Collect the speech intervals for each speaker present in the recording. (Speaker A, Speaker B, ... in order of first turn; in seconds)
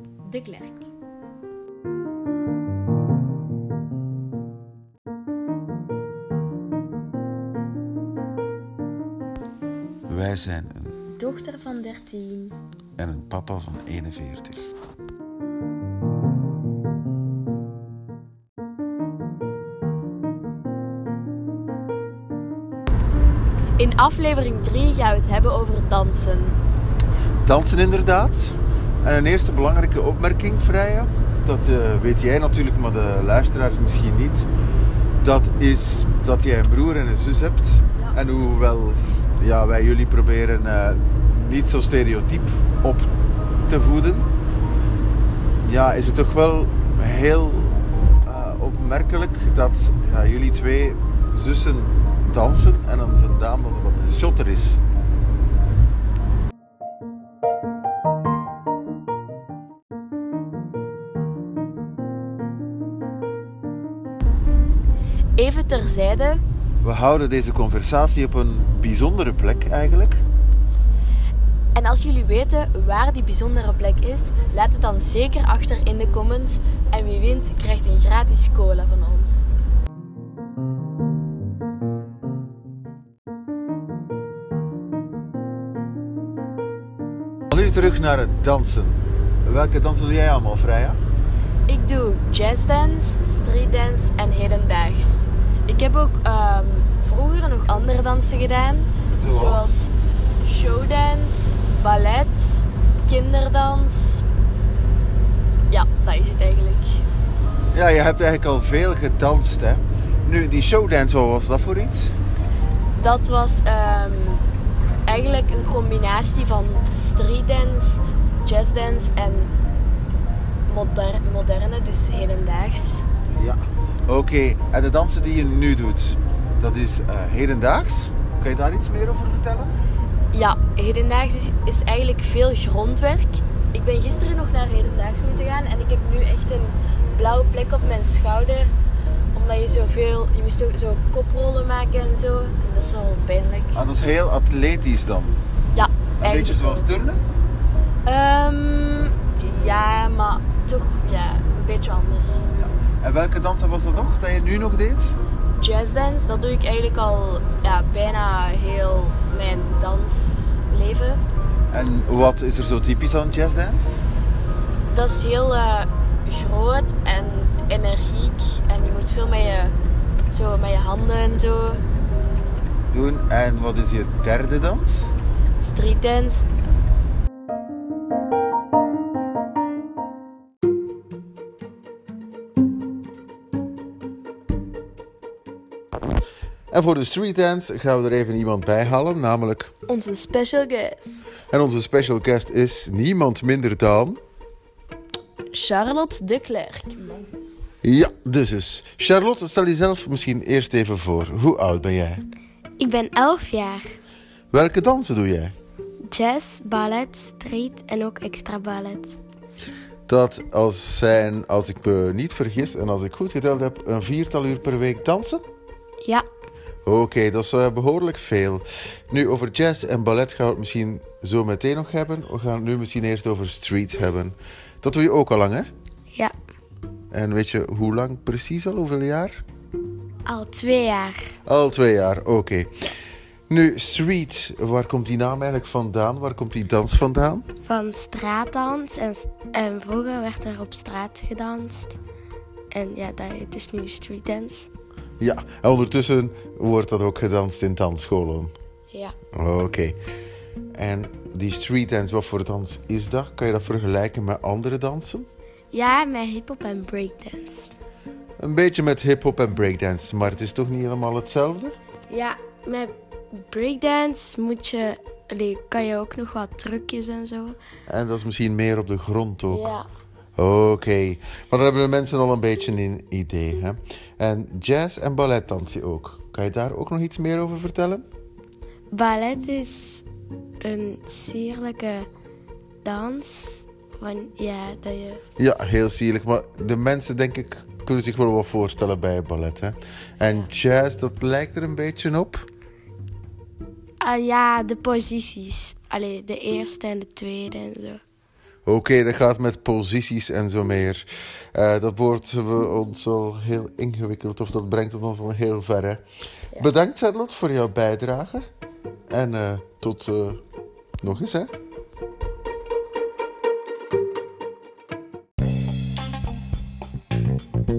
Speaker A: 0.2-0.8, 11.1-12.5, 23.8-26.6, 65.4-66.4, 71.7-79.5, 91.7-99.9, 100.4-104.2, 105.7-107.0, 113.0-114.4, 115.0-119.5, 120.7-123.1, 130.3-138.7, 139.3-143.8, 145.7-146.9, 148.0-152.5, 155.6-161.2, 164.9-169.7, 170.3-171.8, 175.6-176.5, 189.9-191.4, 195.5-197.6
Speaker B: 10.1-11.0, 13.0-14.7, 27.4-34.5, 35.2-43.1, 43.7-44.3, 45.6-54.8, 66.8-70.2, 87.5-91.0, 99.1-99.8, 107.7-112.2, 123.3-129.7, 143.7-145.4, 146.2-147.2, 152.5-155.2, 161.7-164.0, 172.9-175.1, 186.7-189.7, 191.5-194.2, 197.8-202.2, 204.5-205.5, 210.1-215.4, 216.8-225.7, 227.1-229.4, 231.4-232.7, 233.5-237.4, 245.2-248.5, 249.3-250.0, 250.7-255.3, 258.4-261.8, 267.9-269.7, 270.4-278.0, 285.4-292.4, 298.6-306.0, 306.5-308.5, 309.1-310.4, 311.0-311.5
Speaker C: 202.8-203.8, 206.1-209.2, 230.2-231.3, 237.6-241.9, 242.7-244.7, 255.7-257.7, 262.1-267.6, 269.5-269.9, 278.9-280.0, 280.6-282.1, 282.8-285.2, 294.0-298.0